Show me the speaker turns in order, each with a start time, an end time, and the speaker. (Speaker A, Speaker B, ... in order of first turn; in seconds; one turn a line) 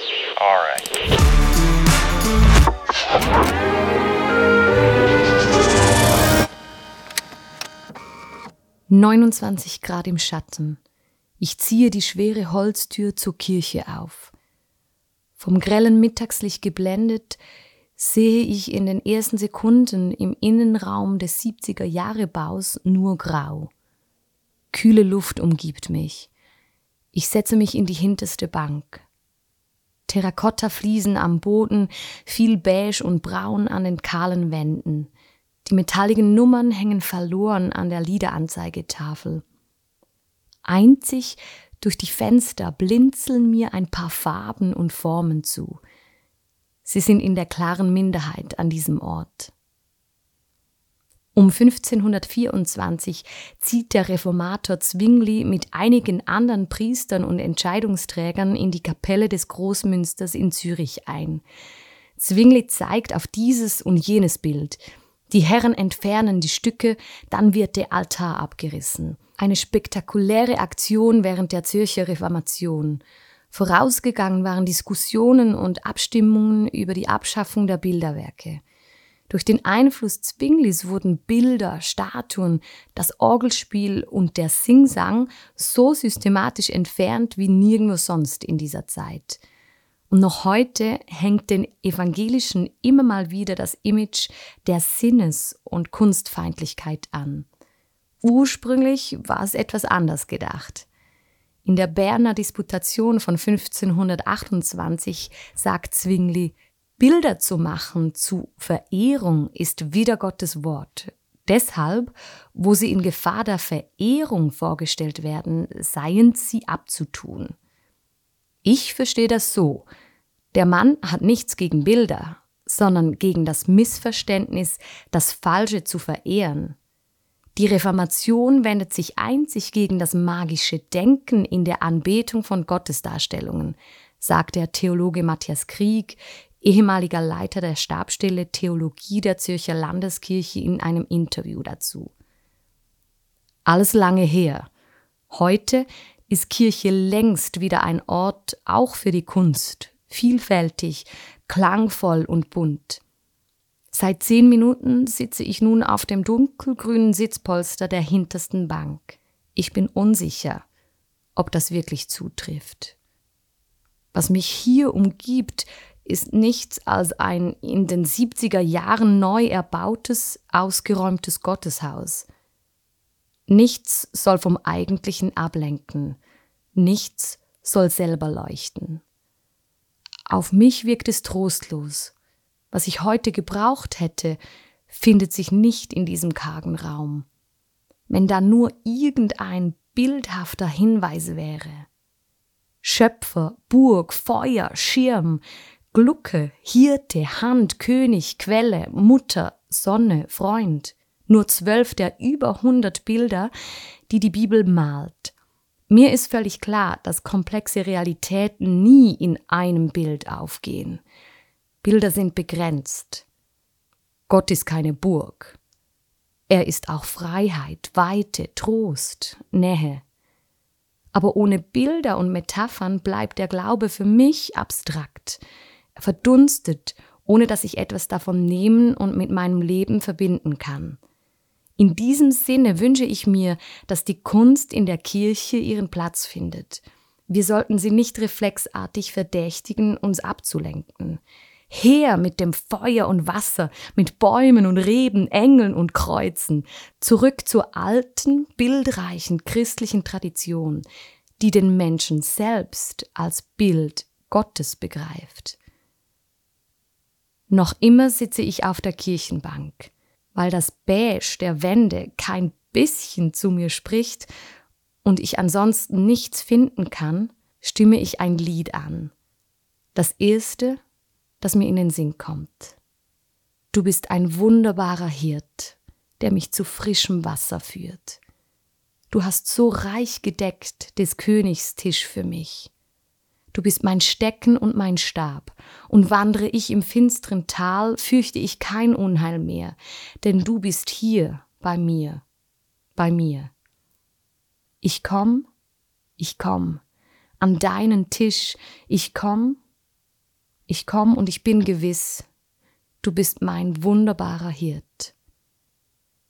Speaker A: 8.9-10.8
Speaker A: 11.4-14.3
Speaker A: 15.4-17.4
Speaker A: 18.0-23.7
Speaker A: 24.7-26.3
Speaker A: 27.1-29.0
Speaker A: 30.1-35.1
Speaker A: 35.6-39.4
Speaker A: 40.6-45.8
Speaker A: 46.9-49.5
Speaker A: 51.4-61.4
Speaker A: 62.2-64.8
Speaker A: 65.3-78.6
Speaker A: 79.3-89.4
Speaker A: 90.1-97.5
Speaker A: 98.2-100.9
Speaker A: 101.7-117.5
Speaker A: 118.6-119.9
Speaker A: 120.5-126.8
Speaker A: 127.5-142.1
Speaker A: 143.7-144.7
Speaker A: 145.3-153.0
Speaker A: 153.9-160.6
Speaker A: 161.4-163.0
Speaker A: 164.1-172.3
Speaker A: 173.5-176.2
Speaker A: 176.8-179.0
Speaker A: 180.3-182.1
Speaker A: 182.7-187.3
Speaker A: 188.1-191.9
Speaker A: 192.8-203.5
Speaker A: 204.1-205.3
Speaker A: 205.9-211.0
Speaker A: 211.8-213.3
Speaker A: 214.3-215.6
Speaker A: 216.5-220.0
Speaker A: 221.1-225.4
Speaker A: 226.0-231.0
Speaker A: 231.8-250.8
Speaker A: 251.4-255.6
Speaker A: 257.5-264.3
Speaker A: 265.0-269.1
Speaker A: 269.9-270.8
Speaker A: 271.4-272.8
Speaker A: 273.7-278.2
Speaker A: 279.1-282.7
Speaker A: 283.5-292.2
Speaker A: 293.0-293.5
Speaker A: 294.8-295.5
Speaker A: 296.2-296.8
Speaker A: 297.4-299.6
Speaker A: 300.7-302.3
Speaker A: 303.0-305.1